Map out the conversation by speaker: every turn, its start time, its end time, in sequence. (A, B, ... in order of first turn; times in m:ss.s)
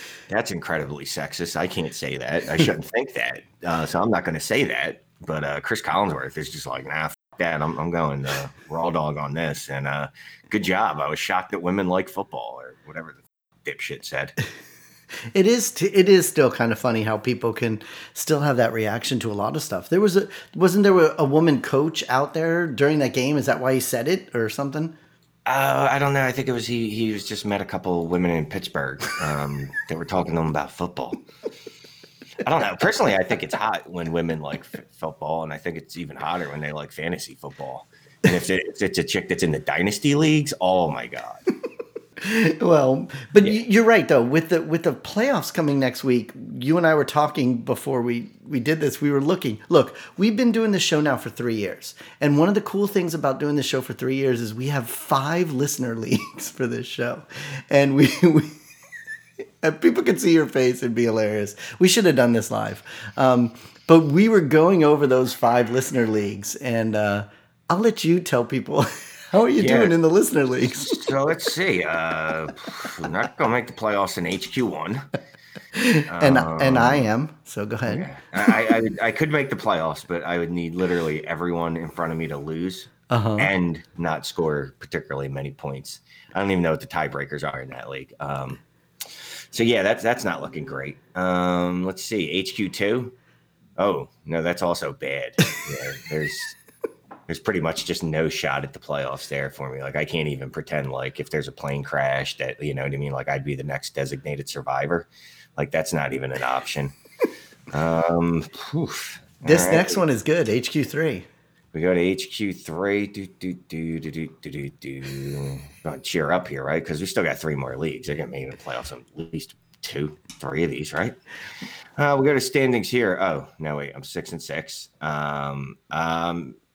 0:00.3-0:14.3 A
0:15.3-0:24.9 B
0:25.4-0:31.2 A
0:32.4-0:41.4 A
0:42.2-0:58.5 B
0:59.6-1:11.1 B
1:09.6-1:10.0 A
1:10.8-1:15.0 A
1:15.7-1:18.5 B
1:16.1-1:17.0 A
1:17.9-1:33.2 A
1:23.1-1:23.5 B
1:33.8-1:36.6 A
1:37.3-1:46.9 A
1:47.7-1:50.0 A
1:49.4-1:51.3 B
1:51.7-2:01.2 A
2:02.0-2:06.6 A